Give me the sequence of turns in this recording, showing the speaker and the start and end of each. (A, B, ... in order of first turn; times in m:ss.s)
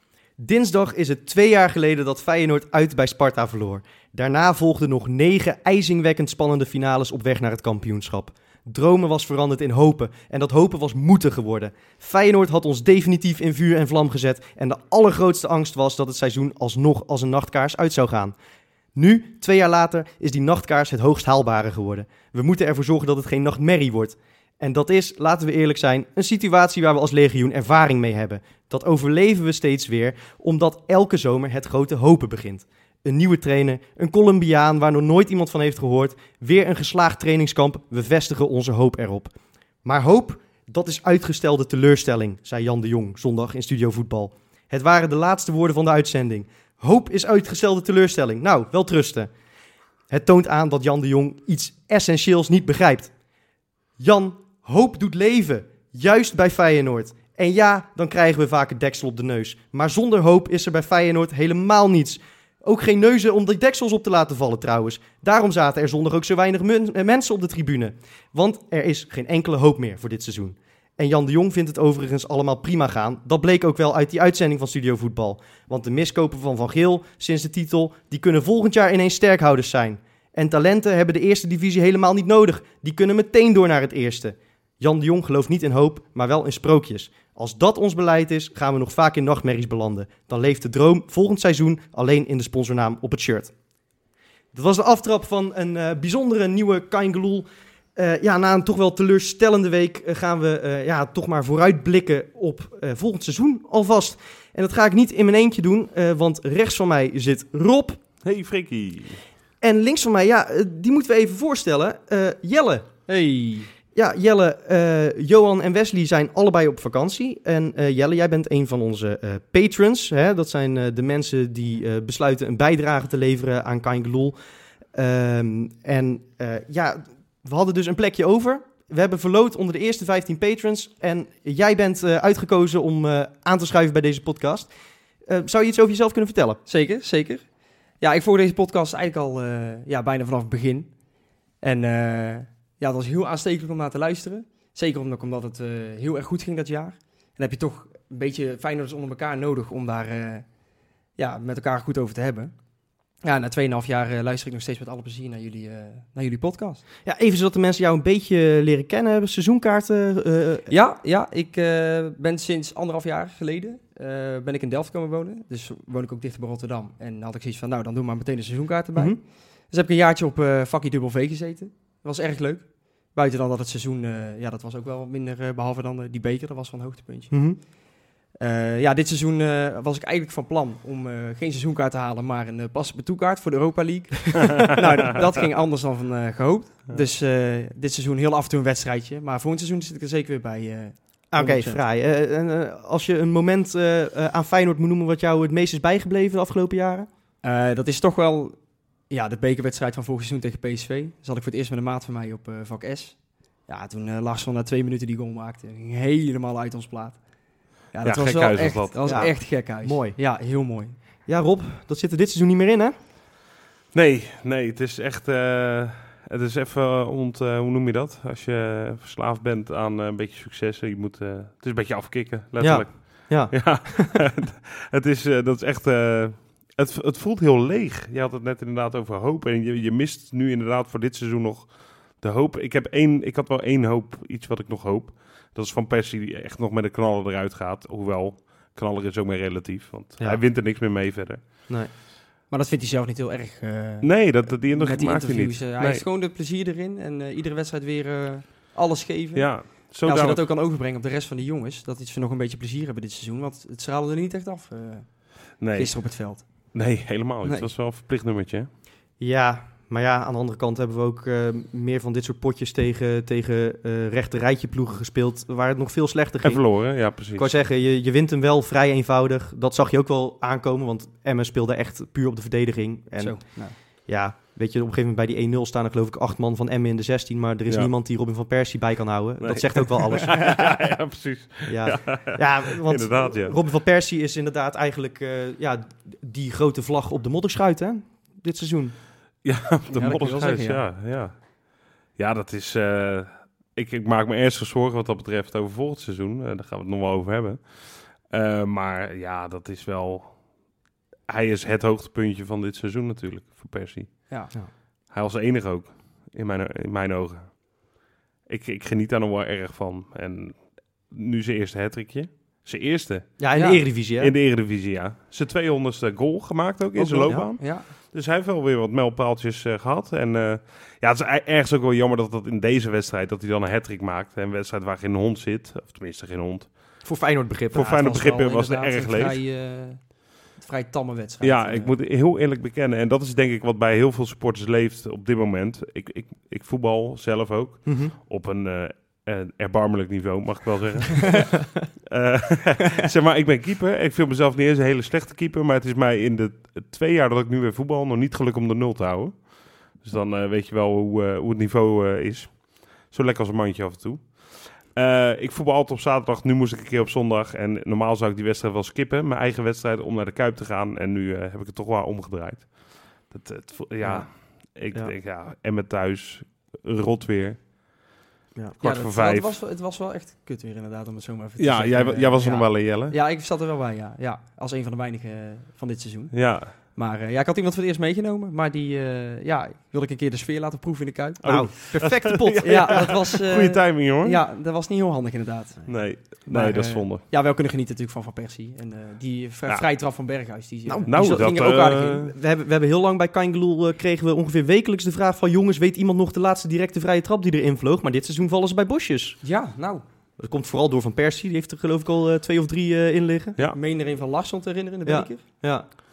0:00.4-0:18.3 A
0:18.9-0:39.3 A
0:39.8-0:49.3 A
0:50.1-0:53.1 A
0:54.0-1:33.5 A
1:34.5-1:48.0 A
1:48.2-1:49.2 B
1:49.6-1:52.9 A
1:53.1-1:53.7 C
1:53.9-2:04.4 A
2:04.9-2:14.7 A
2:15.3-2:16.6 A
2:16.6-2:17.4 C
2:18.0-2:20.9 C
2:21.6-2:30.4 C
2:31.2-2:32.5 C
2:33.2-2:36.8 C
2:37.0-2:40.7 A
2:40.7-2:57.3 C
2:48.9-2:49.2 A
2:57.3-2:57.6 A
2:58.4-3:11.8 C
3:11.3-3:17.1 A
3:17.4-3:18.6 C
3:19.1-3:27.2 C
3:27.9-3:31.0 C
3:28.0-3:29.3 B
3:29.0-3:30.2 A
3:31.3-3:32.9 A
3:33.9-4:01.4 B
3:42.6-3:44.2 A
4:02.5-4:16.4 C
4:04.0-4:06.0 B
4:09.3-4:10.4 B
4:15.6-4:15.9 B
4:16.7-4:18.7 B
4:17.4-4:17.7 C
4:19.2-4:33.6 A
4:26.4-4:27.5 B
4:33.2-4:33.7 C
4:34.1-4:40.7 A
4:39.4-4:43.6 B
4:41.7-4:48.9 A
4:49.4-5:00.5 B
4:49.9-4:50.8 C
5:01.3-5:04.2 B
5:05.1-5:07.9 B
5:08.5-5:13.4 B
5:13.4-5:14.3 A
5:13.5-5:13.8 C
5:14.2-5:26.8 B
5:16.9-5:17.9 C
5:27.0-5:28.0 A
5:27.7-5:29.4 B
5:27.9-5:31.9 C
5:31.4-6:07.6 B
5:37.8-5:38.1 A
6:08.8-6:09.5 B
6:08.8-6:21.7 C
6:11.6-6:13.2 B
6:16.3-6:16.7 B
6:21.4-6:24.4 B
6:21.4-6:23.1 A
6:22.6-6:31.5 C
6:25.9-6:27.2 B
6:30.8-6:39.4 A
6:31.1-6:32.3 B
6:39.4-6:40.0 C
6:40.4-6:43.6 A
6:43.7-6:45.4 C
6:45.0-6:45.9 A